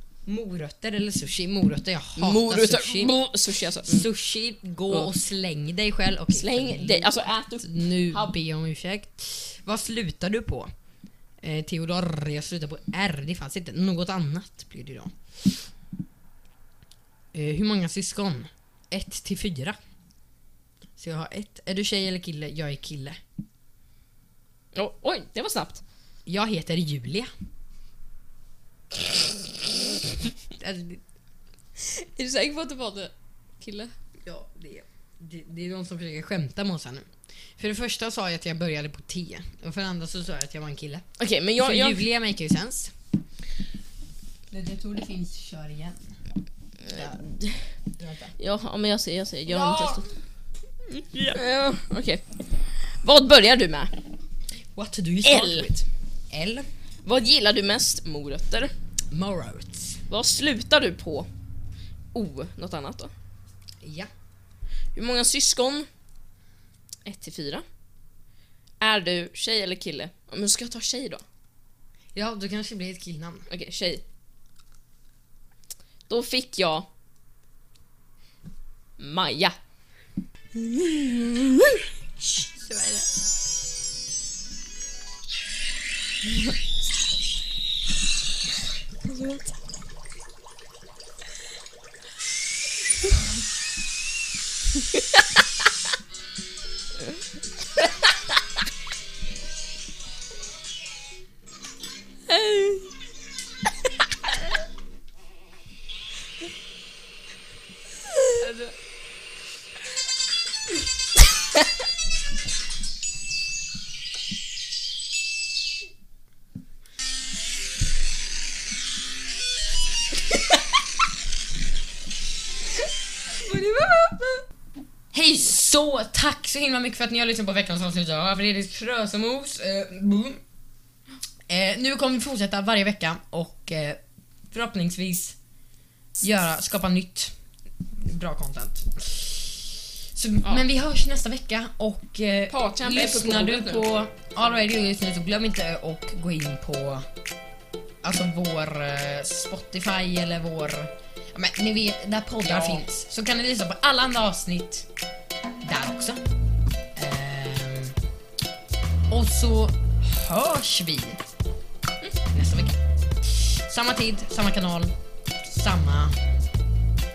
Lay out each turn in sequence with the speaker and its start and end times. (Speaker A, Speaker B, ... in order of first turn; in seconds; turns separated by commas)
Speaker A: 0.3-3.1, Speaker B: 2.2-4.1, Speaker A: 3.9-10.7, Speaker B: 6.3-8.3, Speaker A: 11.4-15.1, Speaker A: 17.3-19.8, Speaker A: 21.0-23.2, Speaker B: 24.7-25.8, Speaker A: 26.3-27.3, Speaker A: 30.5-31.0, Speaker B: 31.8-33.9, Speaker A: 34.2-41.1, Speaker B: 41.2-42.0, Speaker A: 41.6-42.9, Speaker A: 44.5-46.1, Speaker B: 46.8-47.8, Speaker A: 46.9-47.2, Speaker A: 48.0-48.4, Speaker B: 48.4-50.0, Speaker A: 49.5-50.0, Speaker A: 50.9-51.4, Speaker B: 51.3-53.9, Speaker A: 54.8-56.7, Speaker B: 55.2-55.7, Speaker B: 57.0-58.7, Speaker A: 59.1-60.0, Speaker B: 60.1-61.3, Speaker B: 62.1-63.1, Speaker A: 63.8-64.1, Speaker B: 65.0-65.9, Speaker B: 67.0-67.7, Speaker B: 68.8-71.2, Speaker A: 72.2-73.5, Speaker B: 73.5-74.0, Speaker B: 76.1-76.9, Speaker B: 79.0-79.6, Speaker B: 80.5-81.9, Speaker B: 82.6-83.1, Speaker B: 89.0-89.5, Speaker B: 94.9-95.2, Speaker B: 97.8-98.1, Speaker B: 102.3-102.9, Speaker B: 108.1-108.7, Speaker B: 123.3-124.4, Speaker A: 125.1-130.4, Speaker A: 131.5-135.4, Speaker A: 136.2-137.3, Speaker A: 137.9-147.1, Speaker B: 142.5-143.9, Speaker A: 148.0-154.9, Speaker B: 152.4-152.9, Speaker A: 155.6-156.2, Speaker A: 156.9-158.0, Speaker A: 159.1-161.2, Speaker A: 162.3-166.2